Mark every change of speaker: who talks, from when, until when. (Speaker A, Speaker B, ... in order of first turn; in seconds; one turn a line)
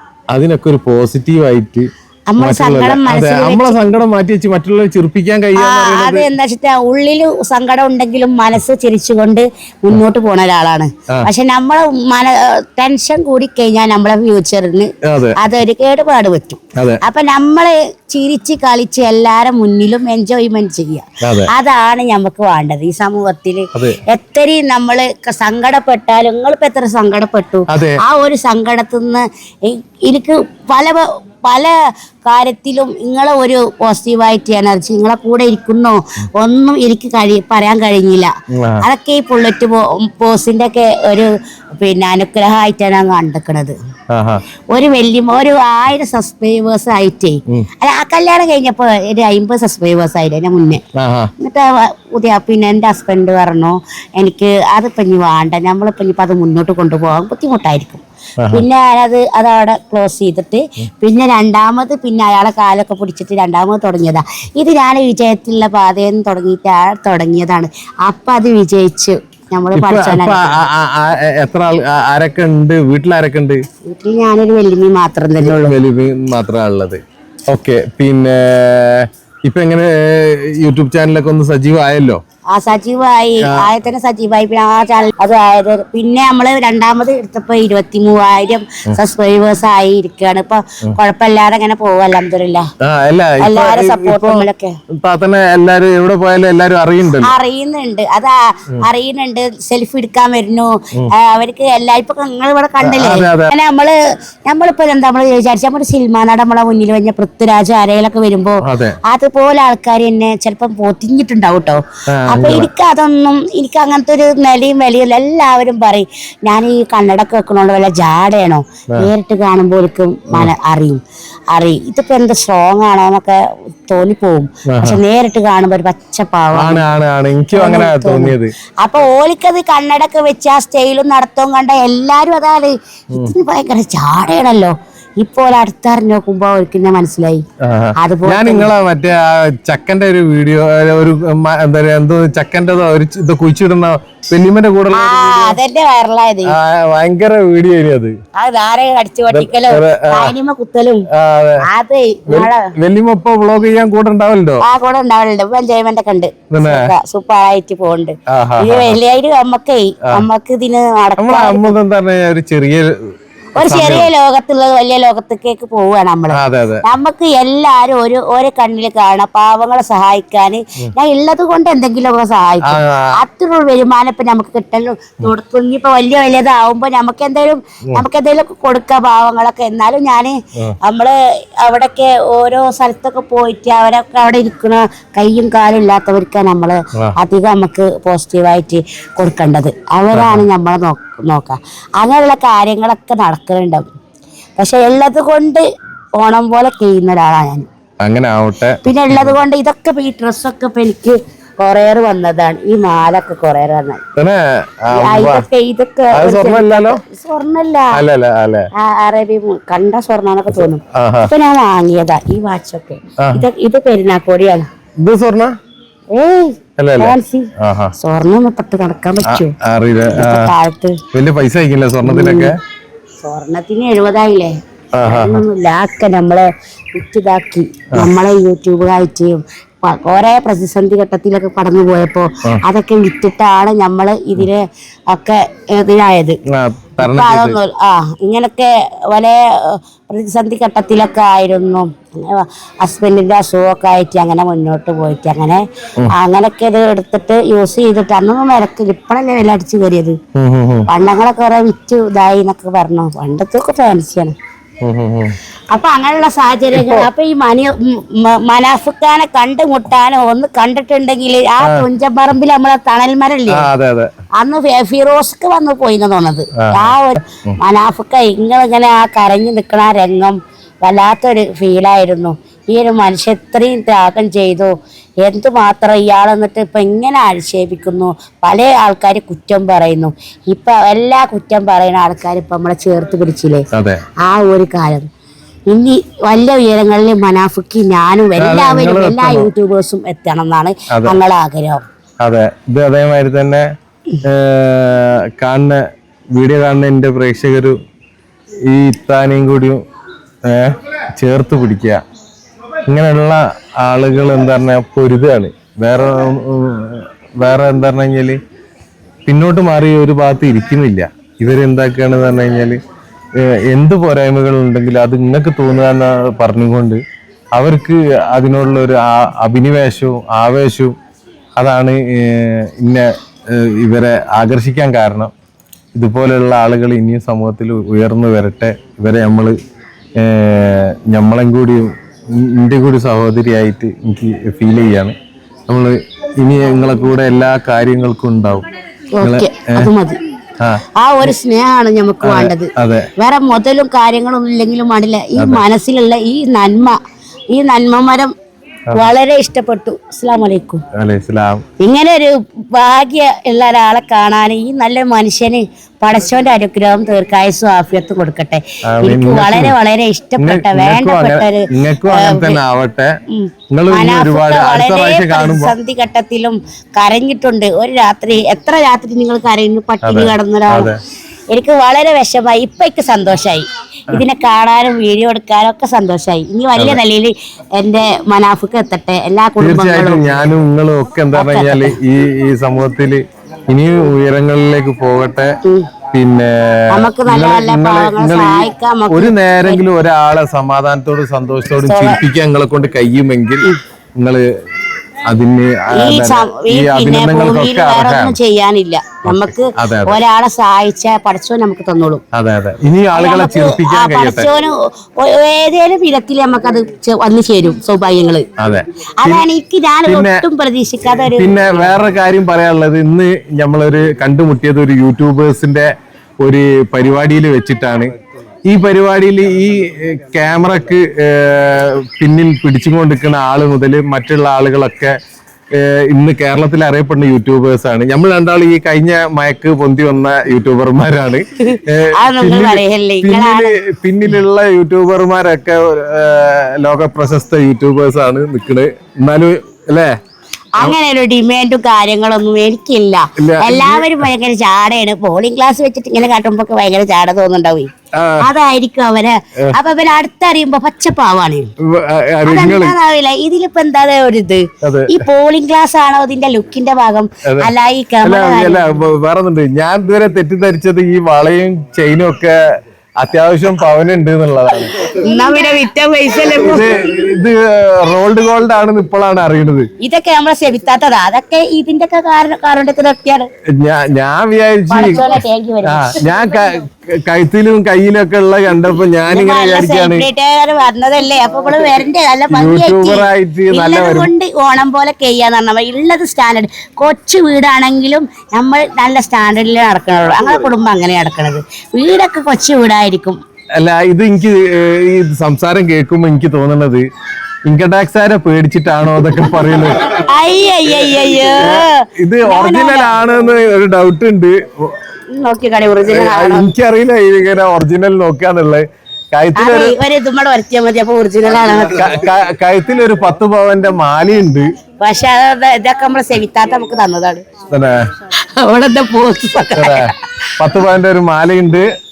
Speaker A: 0.3-6.3
Speaker B: 2.3-3.8
Speaker B: 5.6-31.7
Speaker A: 15.0-15.4
Speaker A: 21.2-21.5
Speaker A: 27.7-28.0
Speaker B: 32.3-38.3
Speaker A: 38.5-38.9
Speaker B: 38.8-43.8
Speaker A: 44.1-44.4
Speaker B: 44.7-50.8
Speaker A: 51.0-51.3
Speaker B: 51.4-70.6
Speaker A: 58.4-58.7
Speaker A: 69.7-73.6
Speaker B: 73.9-75.8
Speaker A: 75.4-82.2
Speaker B: 82.5-92.7
Speaker A: 83.4-83.7
Speaker A: 92.8-97.3
Speaker B: 93.4-94.8
Speaker B: 97.2-104.0
Speaker A: 102.8-103.5
Speaker B: 104.5-121.0
Speaker A: 108.6-109.0
Speaker A: 112.1-112.7
Speaker B: 121.5-126.8
Speaker A: 124.7-125.0
Speaker A: 126.5-128.5
Speaker B: 127.5-137.4
Speaker A: 133.1-133.3
Speaker A: 137.6-145.6
Speaker B: 138.0-138.7
Speaker B: 144.9-146.5
Speaker A: 146.5-148.2
Speaker B: 148.3-151.1
Speaker A: 149.3-150.3
Speaker A: 151.1-151.6
Speaker B: 151.6-152.7
Speaker A: 152.3-154.6
Speaker B: 154.6-161.8
Speaker A: 156.5-156.9
Speaker A: 158.3-159.0
Speaker A: 160.0-160.3
Speaker A: 161.2-162.9
Speaker A: 163.6-164.1
Speaker B: 163.6-193.8
Speaker A: 166.3-166.8
Speaker A: 172.6-173.2
Speaker A: 190.1-190.5
Speaker B: 194.6-195.6
Speaker B: 196.2-197.7
Speaker A: 198.0-199.4
Speaker B: 198.8-204.0
Speaker A: 204.2-205.5
Speaker B: 204.9-208.0
Speaker A: 206.1-207.0
Speaker A: 207.9-208.7
Speaker B: 208.8-214.7
Speaker A: 210.5-211.3
Speaker A: 213.2-213.5
Speaker A: 215.0-215.5
Speaker B: 216.1-219.6
Speaker A: 216.8-217.9
Speaker A: 219.2-220.5
Speaker B: 220.1-221.0
Speaker A: 221.1-222.5
Speaker B: 222.0-222.5
Speaker B: 223.2-224.5
Speaker A: 225.0-225.4
Speaker B: 225.1-236.4
Speaker A: 236.5-237.6
Speaker B: 237.0-245.6
Speaker B: 246.1-250.2
Speaker A: 250.3-250.9
Speaker B: 250.9-254.3
Speaker A: 254.8-255.4
Speaker B: 255.7-263.7
Speaker A: 256.7-257.1
Speaker A: 261.6-261.9
Speaker A: 263.5-264.1
Speaker B: 264.4-274.7
Speaker A: 266.5-267.6
Speaker B: 275.2-285.1
Speaker A: 283.7-284.1
Speaker B: 285.7-291.8
Speaker A: 288.4-289.5
Speaker A: 290.9-291.2
Speaker A: 292.2-293.6
Speaker A: 294.2-297.8
Speaker A: 298.7-299.8
Speaker A: 300.4-302.0
Speaker A: 302.9-308.4
Speaker A: 309.2-312.8
Speaker A: 313.4-317.0
Speaker A: 317.5-320.9
Speaker A: 321.6-325.3
Speaker A: 325.9-329.6
Speaker A: 330.2-335.1
Speaker A: 335.7-338.7
Speaker B: 339.1-340.2
Speaker A: 339.2-339.9
Speaker A: 340.6-341.4
Speaker B: 340.9-347.0
Speaker A: 342.2-343.1
Speaker A: 345.4-345.6
Speaker B: 347.5-348.3
Speaker B: 348.9-350.8
Speaker A: 350.9-351.7
Speaker B: 351.8-362.6
Speaker A: 358.9-359.8
Speaker A: 360.4-363.1
Speaker B: 363.3-370.9
Speaker A: 363.7-365.8
Speaker A: 370.0-371.0
Speaker B: 371.5-380.3
Speaker A: 376.8-377.0
Speaker A: 379.6-385.6
Speaker B: 381.3-382.0
Speaker B: 385.6-385.9
Speaker A: 386.1-394.4
Speaker B: 386.9-389.8
Speaker B: 391.8-392.2
Speaker A: 395.2-398.4
Speaker B: 395.9-402.2
Speaker A: 399.2-400.2
Speaker A: 402.3-404.5
Speaker B: 403.1-408.5
Speaker A: 408.6-409.5
Speaker B: 409.2-411.9
Speaker A: 410.1-410.4
Speaker A: 411.3-418.1
Speaker A: 418.7-425.1
Speaker A: 425.7-440.1
Speaker B: 431.6-433.7
Speaker B: 440.8-447.9
Speaker A: 443.4-444.3
Speaker A: 448.1-448.5
Speaker B: 448.4-451.6
Speaker A: 451.8-453.0
Speaker B: 452.4-458.9
Speaker A: 454.8-455.3
Speaker A: 457.4-457.7
Speaker A: 458.2-462.6
Speaker A: 463.2-465.1
Speaker B: 465.0-466.9
Speaker A: 466.6-469.9
Speaker B: 470.0-473.5
Speaker A: 473.7-475.2
Speaker B: 474.9-476.2
Speaker A: 475.8-480.3
Speaker B: 479.3-493.4
Speaker A: 482.5-484.3
Speaker A: 493.8-497.1
Speaker A: 497.6-500.1
Speaker B: 500.1-503.2
Speaker A: 501.4-505.0
Speaker B: 505.4-506.7
Speaker A: 506.0-510.0
Speaker B: 509.6-512.2
Speaker A: 511.9-514.7
Speaker B: 515.0-517.5
Speaker A: 517.7-518.1
Speaker B: 518.5-520.2
Speaker A: 519.8-521.9